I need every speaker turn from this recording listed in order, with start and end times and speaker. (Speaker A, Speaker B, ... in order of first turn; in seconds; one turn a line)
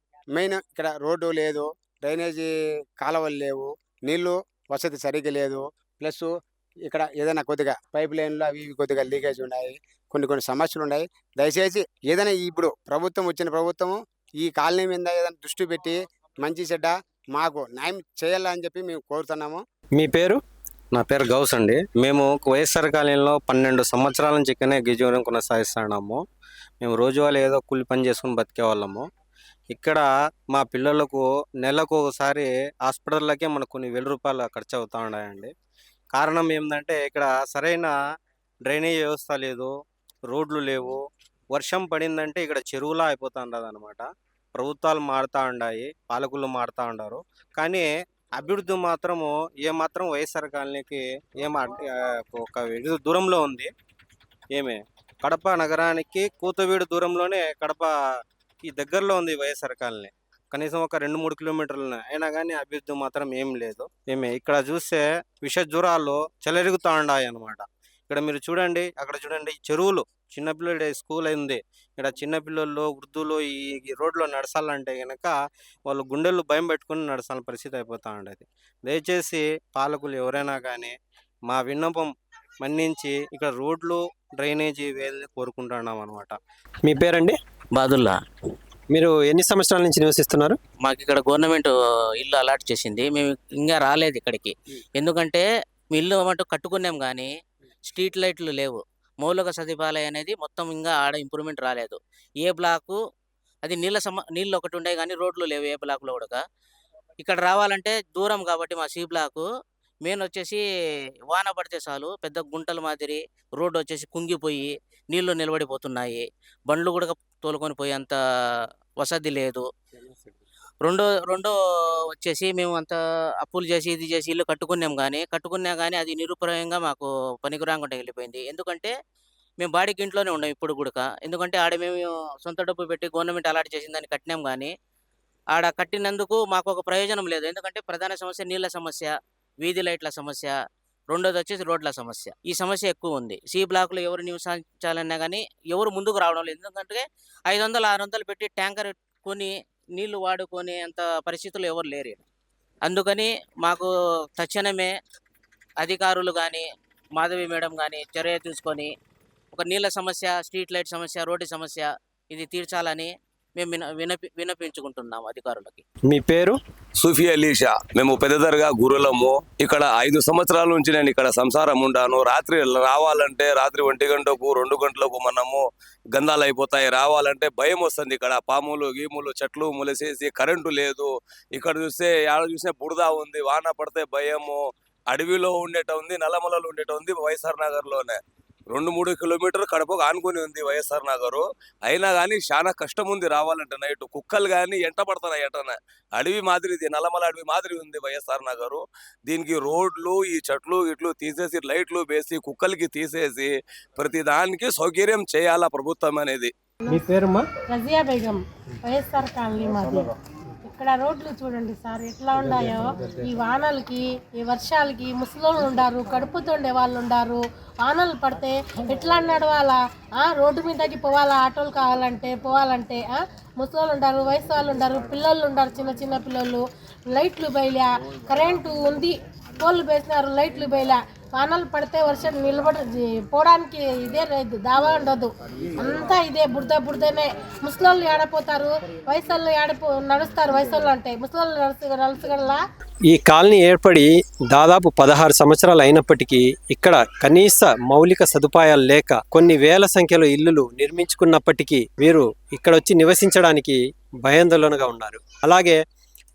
Speaker A: 0.3-6.3
Speaker A: 6.9-19.6
Speaker B: 20.0-20.4
Speaker C: 21.0-26.2
Speaker C: 26.8-29.0
Speaker C: 29.7-30.0
Speaker C: 30.5-35.5
Speaker C: 36.2-37.9
Speaker C: 38.7-39.6
Speaker C: 40.3-40.9
Speaker C: 41.6-44.0
Speaker C: 44.6-47.8
Speaker C: 48.4-51.8
Speaker C: 52.4-53.7
Speaker C: 54.6-57.9
Speaker C: 58.7-65.0
Speaker C: 65.5-67.6
Speaker C: 68.1-75.3
Speaker C: 75.9-80.9
Speaker C: 81.5-82.1
Speaker C: 82.6-86.3
Speaker B: 86.8-87.4
Speaker D: 87.7-88.1
Speaker B: 88.9-90.6
Speaker D: 90.8-97.3
Speaker D: 97.9-103.0
Speaker D: 103.6-106.4
Speaker D: 107.2-109.5
Speaker D: 110.0-110.6
Speaker D: 111.3-119.7
Speaker B: 120.0-120.4
Speaker D: 120.8-121.5
Speaker D: 122.1-128.9
Speaker D: 129.6-134.7
Speaker D: 135.5-140.5
Speaker D: 141.1-152.2
Speaker D: 152.8-154.9
Speaker D: 155.8-156.7
Speaker D: 157.2-158.9
Speaker D: 159.5-165.8
Speaker B: 166.1-166.6
Speaker E: 167.0-188.2
Speaker E: 188.7-206.5
Speaker B: 206.9-207.4
Speaker F: 207.7-210.1
Speaker F: 210.6-242.6
Speaker B: 243.1-255.8